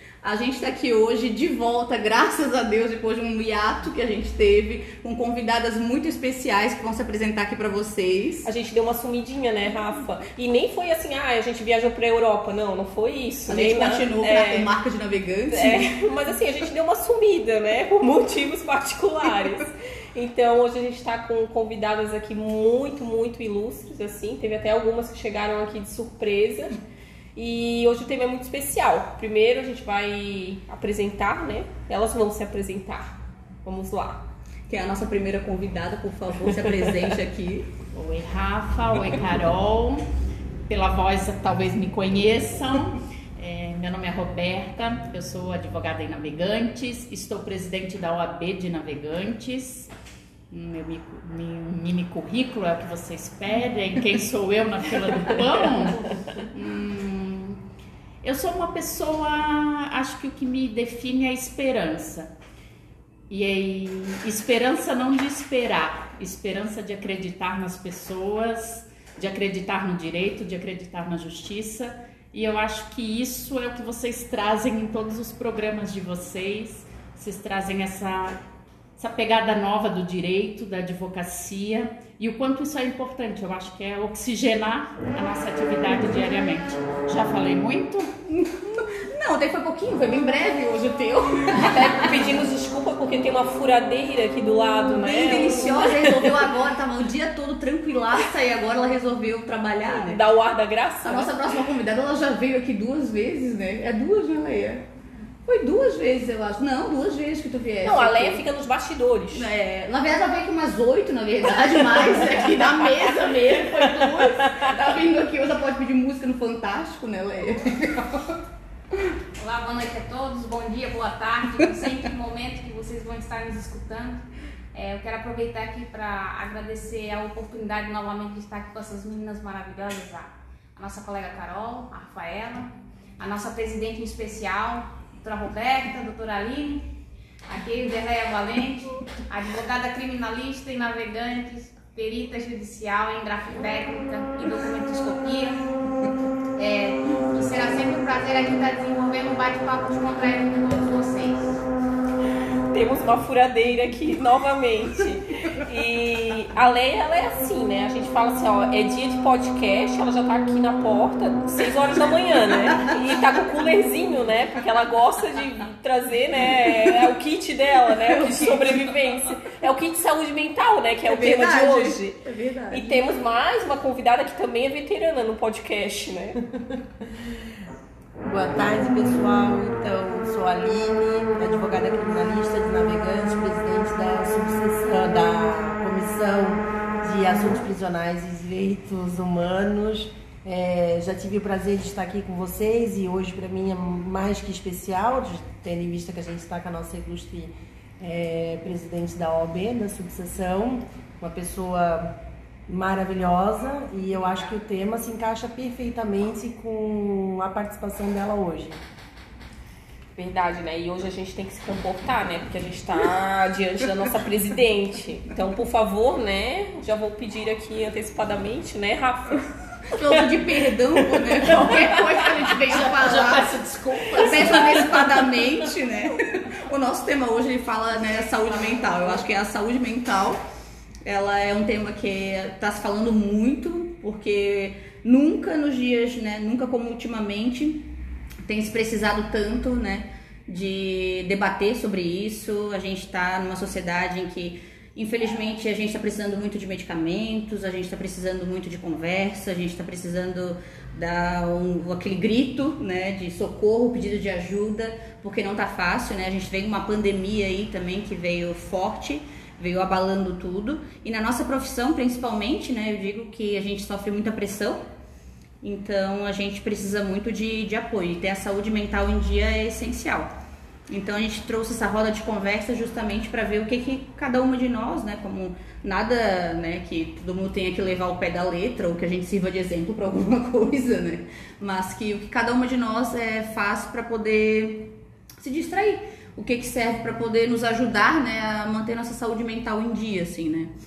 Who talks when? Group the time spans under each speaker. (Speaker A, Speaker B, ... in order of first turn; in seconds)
Speaker A: 0.2-8.5, 13.5-15.9, 34.7-37.7, 88.4-92.2, 95.0-100.2, 101.0-104.8, 105.5-108.5, 109.3-118.3, 168.2-168.8, 171.1-173.0, 219.9-223.5, 224.1-230.4, 231.0-237.9, 238.4-264.8, 265.6-270.3, 270.9-290.7
Speaker B: 8.4-14.7, 15.5-26.8, 27.4-34.2, 91.5-96.4, 99.9-101.3, 107.8-109.5, 152.7-172.2, 172.7-176.4, 210.2-220.2, 221.2-222.3
Speaker C: 37.9-40.0, 40.7-49.9, 50.5-57.6, 58.2-62.3, 63.3-78.4, 79.0-88.1, 222.5-224.9
Speaker D: 119.4-136.9, 137.5-145.6, 146.6-151.5
Speaker E: 178.2-202.1, 202.7-208.8